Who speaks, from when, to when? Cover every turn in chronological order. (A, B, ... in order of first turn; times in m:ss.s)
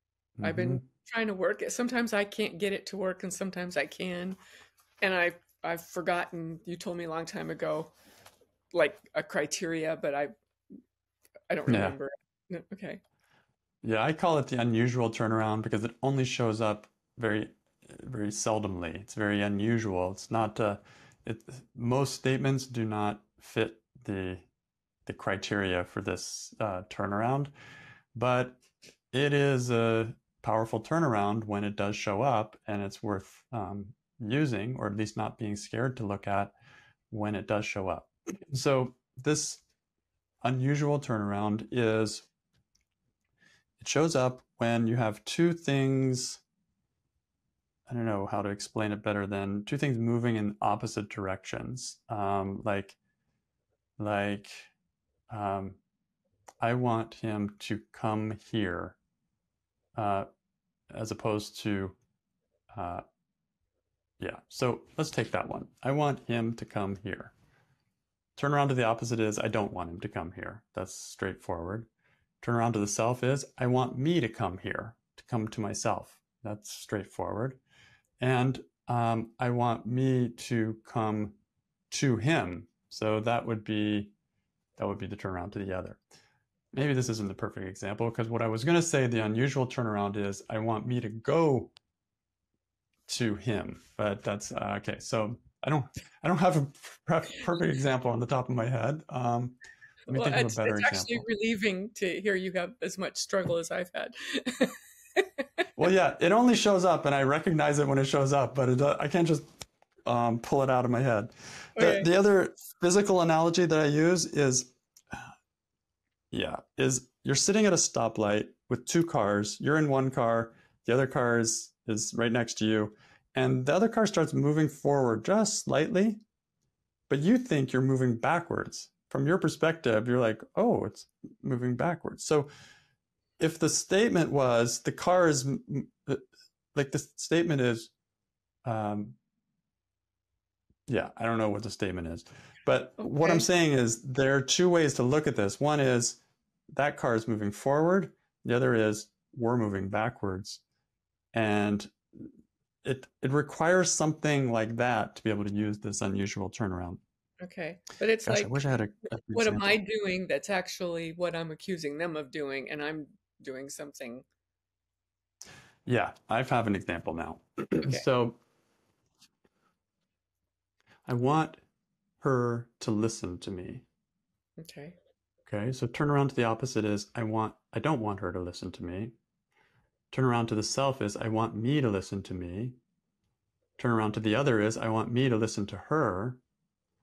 0:00.4-0:00.8 A
0:00.4-0:04.4 B
0:05.0-0:07.9 B
0:08.7-0:10.3 B
0:11.5-0:13.0 B
0:11.7-0:12.0 A
0:13.8-0:24.5 A
0:25.1-0:27.5 A
0:28.2-0:36.5 A
0:37.1-0:39.6 A
0:40.4-0:42.3 A
0:43.8-0:46.4 A
0:47.9-0:53.0 A
0:54.0-0:54.7 A
0:55.3-0:55.8 A
0:56.6-0:59.0 A
1:00.0-1:00.3 A
1:00.9-1:02.0 A
1:02.7-1:03.0 A
1:04.2-1:07.4 A
1:08.4-1:11.9 A
1:12.4-1:17.6 A
1:18.2-1:21.4 A
1:21.9-1:24.1 A
1:24.8-1:26.0 A
1:26.7-1:31.7 A
1:33.1-1:39.6 A
1:40.1-1:45.4 B
1:40.1-1:41.3 A
1:45.8-1:49.4 A
1:50.1-1:55.3 A
1:51.8-1:52.1 B
1:56.3-2:06.2 A
2:07.1-2:12.5 A
2:13.4-2:16.2 A
2:16.8-2:17.9 A
2:18.6-2:19.2 A
2:20.9-2:26.2 A
2:23.0-2:23.5 B
2:26.7-2:30.6 A
2:31.3-2:37.0 A
2:37.4-2:38.6 B
2:38.2-2:39.8 A
2:39.3-2:44.2 B
2:45.9-2:48.4 A
2:51.1-2:51.6 A
2:52.2-2:53.9 A
2:54.6-2:55.0 B
2:55.5-2:59.1 A
3:00.1-3:02.8 A
3:03.8-3:06.4 A